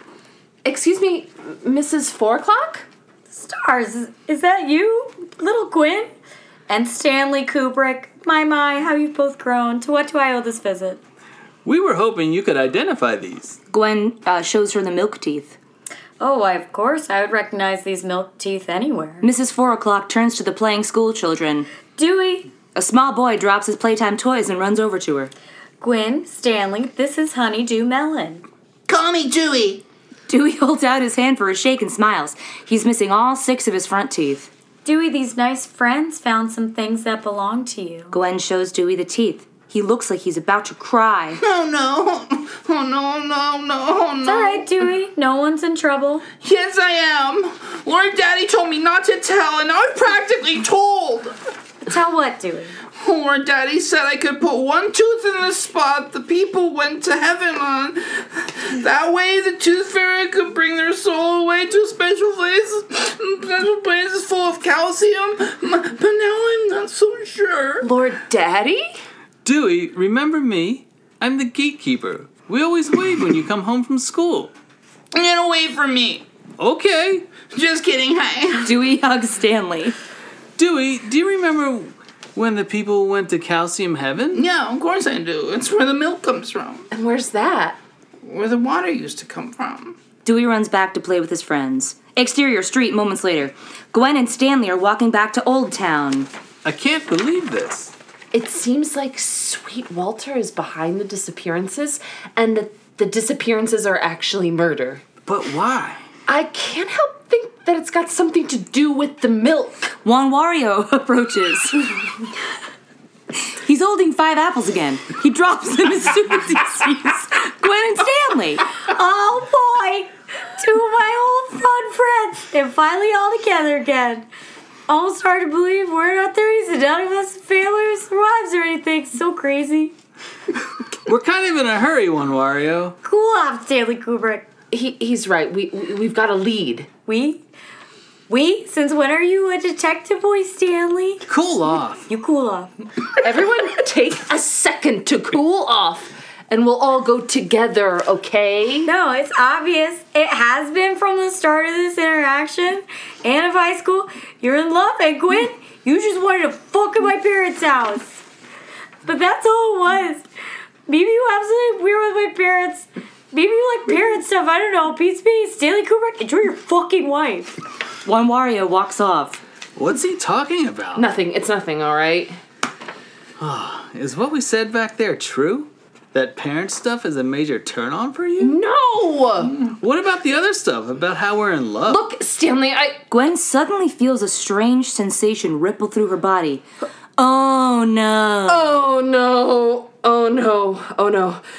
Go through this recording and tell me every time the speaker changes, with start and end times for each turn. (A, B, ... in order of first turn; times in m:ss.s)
0:00.6-0:02.9 A
0:03.3-0:06.1 B
0:06.7-0:11.0 B
0:11.6-0:13.6 C
0:13.7-0:15.6 D
0:16.2-0:19.3 B
0:19.2-0:21.7 D
0:22.0-0:22.5 B
0:22.7-0:25.3 D
0:25.8-0:28.4 B
0:28.9-0:29.8 E
0:30.3-0:34.5 D
0:34.8-0:38.2 B
0:38.1-0:41.4 D
0:41.4-0:44.6 E
0:44.2-0:46.2 B
0:46.4-0:51.4 E
0:51.9-0:52.8 B
0:53.0-1:07.9 E
1:07.8-1:08.9 A
1:09.4-1:14.5 C
1:15.1-1:16.2 E
1:16.6-1:17.4 C
1:17.4-1:18.7 E
1:18.6-1:20.0 D
1:20.6-1:24.4 C
1:24.3-1:26.8 E
1:26.9-1:27.8 A
1:28.2-1:30.0 E
1:30.2-1:36.3 D
1:36.6-1:37.9 C
1:38.3-1:45.0 A
1:45.3-1:46.0 C
1:46.3-1:50.0 A
1:50.0-1:52.0 D
1:53.6-1:58.7 D
1:58.8-2:04.3 B
2:04.9-2:09.9 B
2:11.1-2:13.0 C
2:13.0-2:14.5 B
2:14.7-2:16.9 A
2:17.1-2:17.4 B
2:18.3-2:21.2 B
2:21.3-2:22.0 C
2:22.1-2:22.7 B
2:23.2-2:28.9 A
2:28.8-2:38.2 B
2:39.0-2:40.2 B
2:40.9-2:47.6 B
2:48.0-2:49.4 D
2:49.8-2:51.1 C
2:51.0-2:52.4 A
2:53.4-2:58.6 C
2:58.4-2:59.6 A
2:59.6-3:02.0 C
3:01.9-3:03.0 A
3:03.1-3:06.6 D
3:07.2-3:08.8 D
3:08.5-3:11.4 A